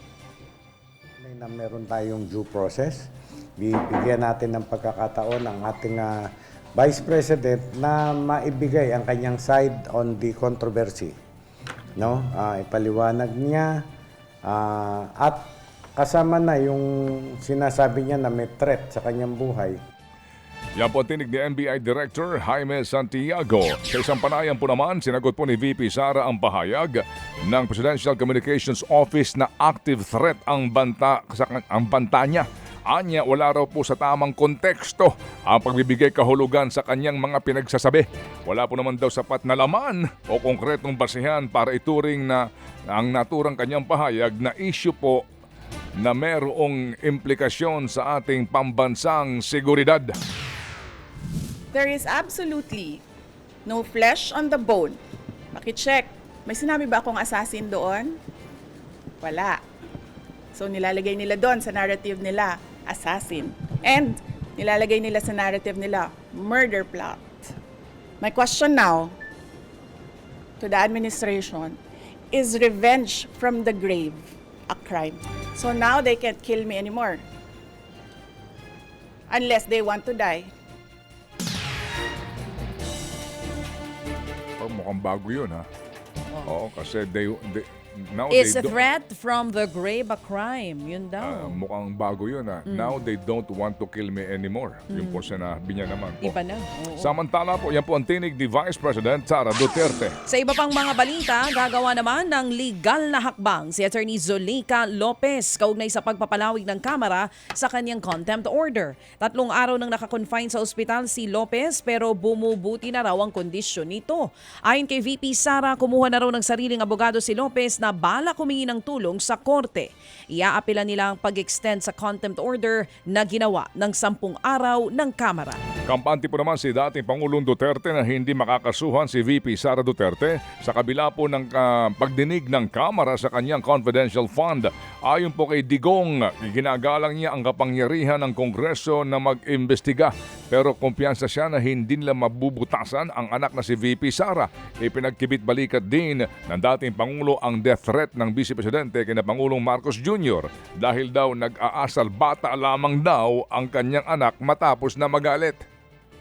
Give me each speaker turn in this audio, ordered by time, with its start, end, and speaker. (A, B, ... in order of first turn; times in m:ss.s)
0:01.2-0:03.1 A
0:03.6-0:11.1 A
0:12.0-0:13.8 A
0:14.5-0:15.4 A
0:16.0-0:19.8 A
0:20.8-0:45.2 B
0:46.0-0:50.2 B
0:51.7-0:53.0 C
0:53.6-0:55.0 C
0:55.5-0:58.2 C
0:59.2-0:59.6 C
1:00.5-1:07.6 C
1:08.2-1:09.1 C
1:10.6-1:11.8 C
1:12.3-1:17.2 C
1:19.3-1:20.5 C
1:24.6-1:25.6 B
1:26.4-1:28.7 B
1:28.3-1:31.6 D
1:31.2-1:36.3 B
1:32.7-1:33.0 D
1:34.9-1:35.3 D
1:36.2-1:37.1 D
1:37.0-1:40.1 B
1:40.3-2:05.6 D
2:05.8-2:35.6 B